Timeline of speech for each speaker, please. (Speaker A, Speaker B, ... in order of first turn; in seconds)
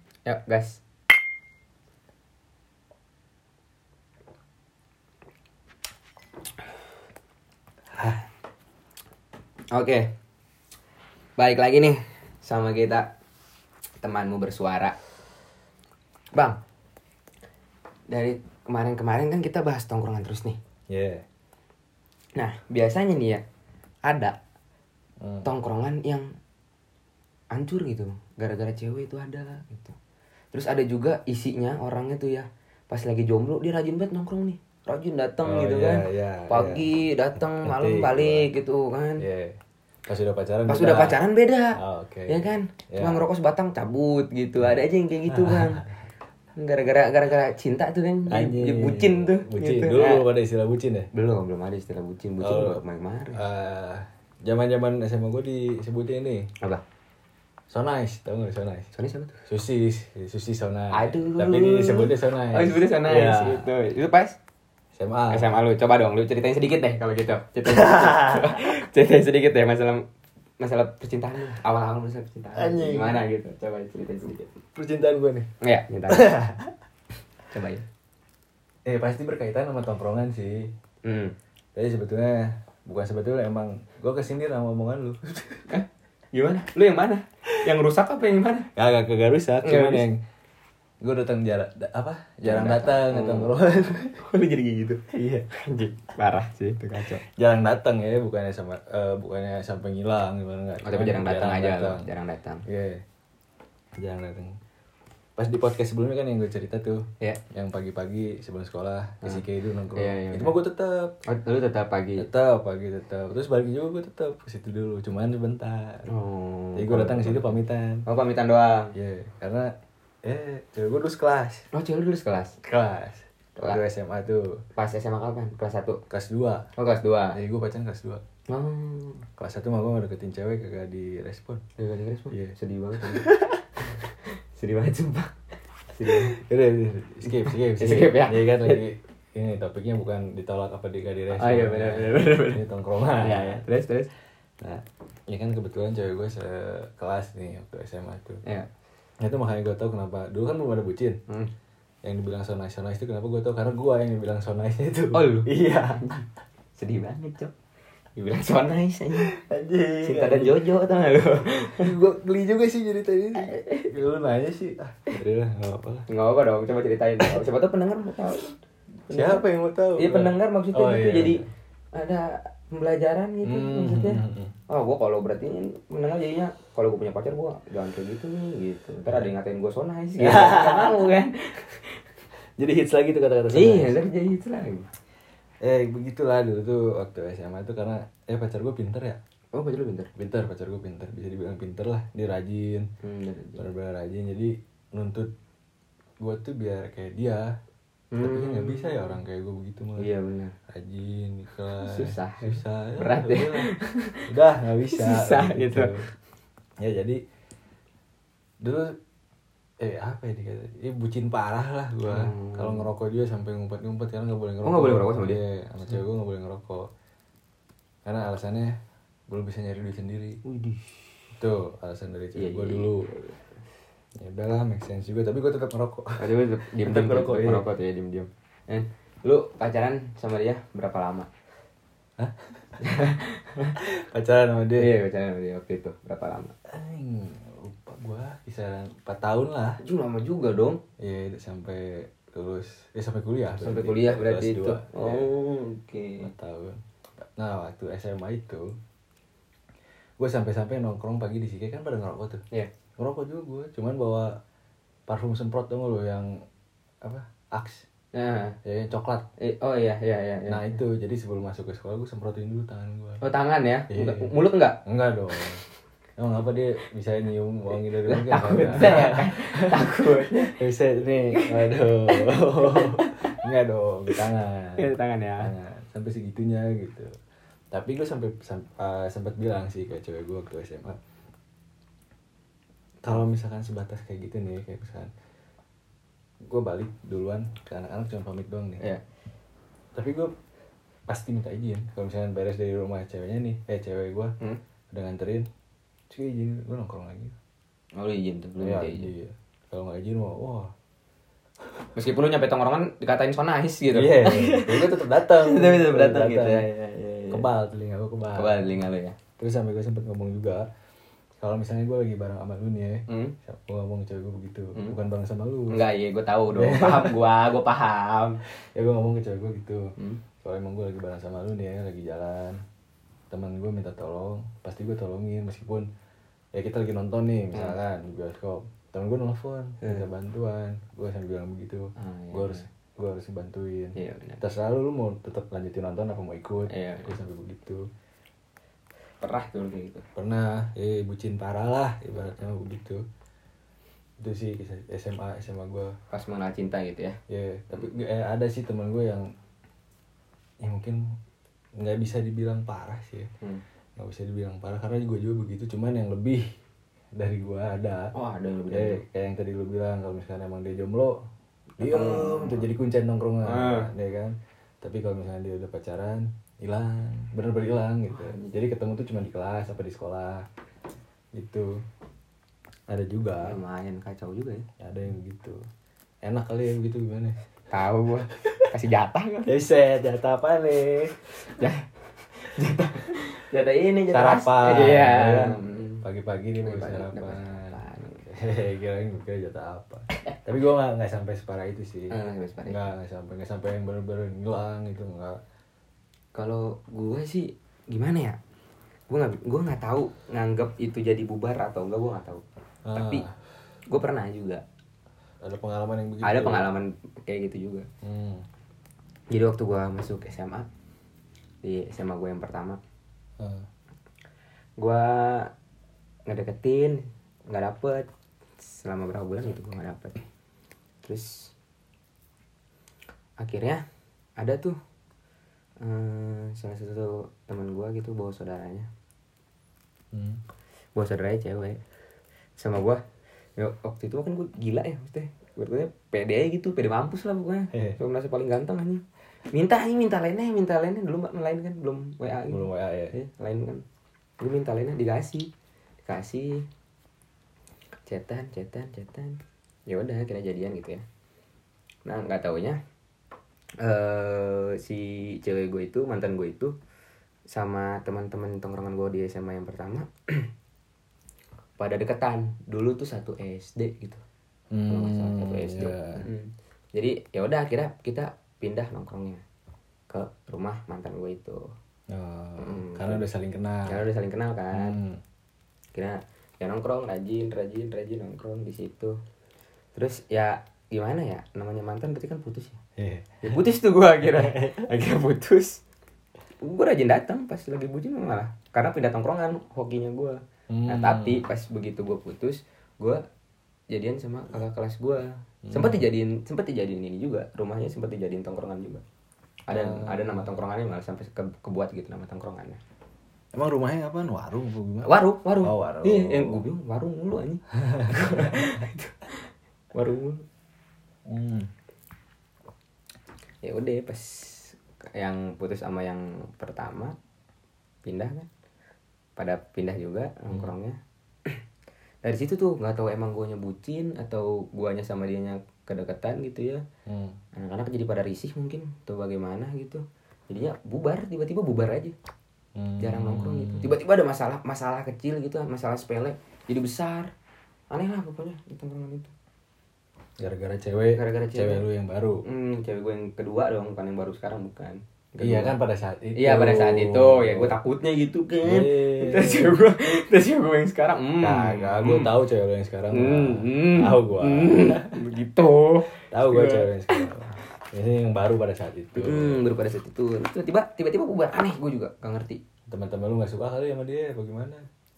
Speaker A: 0.3-0.8, 9.7-10.1, 11.4-13.1, 14.0-15.0, 18.1-20.6, 22.4-23.4, 24.1-24.4, 25.4-26.3, 27.5-30.0, 30.5-39.2, 40.7-45.8, 46.6-50.3, 51.1-53.4, 58.9-59.4, 60.9-64.4, 65.3-70.0, 70.6-74.6, 75.6-76.4, 77.5-77.8, 81.0-81.3, 85.7-88.7, 89.6-90.1, 92.4-93.7, 94.2-97.2, 100.8-102.6, 109.9-110.6, 111.3-112.3, 116.1-119.0, 121.7-122.6, 123.6-123.8, 124.8-126.0, 126.8-127.4, 128.5-129.3, 131.8-135.3, 135.9-136.4, 137.3-138.8, 141.3-142.7, 143.2-144.1, 155.1-156.2, 156.8-157.5, 158.2-159.3, 160.0-161.9, 163.4-163.9, 166.1-168.6, 169.1-169.4, 170.0-171.4, 171.9-182.0, 183.5-184.9, 189.5-190.1, 193.0-193.7, 198.1-199.2, 200.0-200.5, 201.8-204.2, 204.9-206.0, 212.1-212.9, 214.6-216.0, 220.4-221.1, 222.4-223.3, 226.2-231.3, 232.8-233.7, 234.8-236.5, 239.8-240.8, 243.6-246.3, 258.1-258.6, 259.4-260.7, 263.2-264.8, 268.0-270.6, 271.3-273.4, 274.8-275.5, 298.0-299.1, 301.9-307.5, 308.4-309.2, 313.1-313.4, 315.7-318.4, 329.8-330.1, 332.0-332.7, 334.0-334.4, 336.7-337.2, 339.2-340.0, 346.1-347.2, 358.1-359.0, 361.8-362.7, 363.4-363.9, 368.1-368.6, 373.4-374.7, 377.7-379.6, 381.5-386.1, 386.6-388.3, 392.1-392.9, 396.4-398.4, 399.1-402.4, 402.9-403.2, 403.9-404.6, 406.2-407.9, 409.3-410.7, 411.6-412.8, 414.8-415.5, 416.3-418.1, 418.6-420.2, 421.0-421.5, 423.4-423.8, 424.4-424.8, 425.8-428.9, 430.9-431.8, 432.6-433.0, 433.6-443.8, 444.4-445.5, 446.1-446.7, 448.1-451.0, 452.1-452.8, 453.8-456.7, 457.5-460.5, 461.8-464.2, 464.9-469.4, 470.1-471.7, 472.6-473.3, 473.9-475.0, 475.9-479.2, 479.9-482.8, 483.4-485.8, 486.6-493.2, 493.9-499.0, 499.7-502.8, 505.1-509.4, 509.9-510.4, 513.6-517.2, 518.0-518.5, 519.4-521.6, 522.2-526.8, 527.5-532.1, 533.0-537.3, 537.9-539.3, 541.1-541.9, 542.5-545.8, 546.4-552.3, 553.1-557.3, 559.1-562.6
Speaker B: 7.9-8.2, 20.9-21.2, 25.2-25.5, 35.4-36.9, 37.5-38.5, 39.2-41.2, 41.8-43.2, 44.6-46.0, 48.3-51.1, 52.4-52.8, 53.3-56.5, 57.7-58.9, 59.5-63.7, 65.0-65.5, 67.7-68.7, 72.5-73.2, 74.8-75.5, 76.1-76.7, 78.8-80.7, 81.8-85.7, 88.8-90.2, 91.0-94.2, 95.1-95.5, 97.0-102.1, 102.7-103.0, 104.0-104.6, 105.4-111.2, 112.2-116.1, 116.8-118.1, 118.9-119.7, 120.2-121.7, 122.6-124.6, 126.1-126.7, 127.3-128.2, 129.4-131.6, 132.3-133.6, 136.1-143.6, 144.6-148.4, 149.2-151.2, 152.0-156.0, 159.2-160.6, 161.8-166.1, 169.1-171.5, 173.4-174.5, 179.1-179.3, 180.2-181.1, 182.6-184.0, 185.6-189.2, 190.2-192.9, 193.6-195.3, 196.2-197.5, 198.2-200.1, 200.7-203.7, 204.3-206.1, 206.8-207.2, 208.6-209.0, 209.8-216.9, 218.1-220.4, 221.3-223.1, 224.2-227.7, 232.2-233.0, 233.8-234.9, 236.7-239.8, 241.0-245.3, 246.2-246.8, 247.4-248.7, 250.2-252.4, 253.0-254.3, 255.1-256.4, 257.0-257.9, 258.6-259.3, 260.5-263.2, 263.9-264.3, 264.9-265.6, 266.2-277.1, 277.7-281.0, 283.0-285.1, 286.4-288.8, 289.9-290.3, 291.1-294.4, 294.9-295.5, 296.1-297.4, 298.6-300.7, 303.9-306.7, 307.3-308.9, 309.4-310.7, 311.4-315.9, 316.5-317.2, 318.7-319.9, 320.4-322.6, 323.3-325.9, 326.5-337.9, 340.2-343.0, 344.2-346.0, 347.3-349.3, 350.6-351.0, 351.8-353.3, 354.0-356.4, 357.2-358.1, 358.7-361.2, 361.8-370.4, 371.4-371.7, 372.9-373.6, 374.8-375.6, 376.2-377.4, 378.4-378.6, 379.5-381.2, 384.1-392.1, 392.7-395.4, 402.9-403.3, 405.4-406.7, 408.0-408.5, 413.4-413.7, 430.1-430.4, 437.7-438.0, 442.5-443.2, 464.7-466.2, 472.1-474.0, 474.7-475.2, 483.0-483.6, 484.2-484.9, 490.7-491.5, 495.7-496.1, 499.7-500.6, 503.5-506.6, 507.9-508.6, 511.3-511.7, 520.5-520.7, 527.1-527.4, 532.8-534.0, 540.4-542.4, 545.4-547.8, 548.6-549.8, 551.4-555.2, 556.3-559.6, 562.9-564.8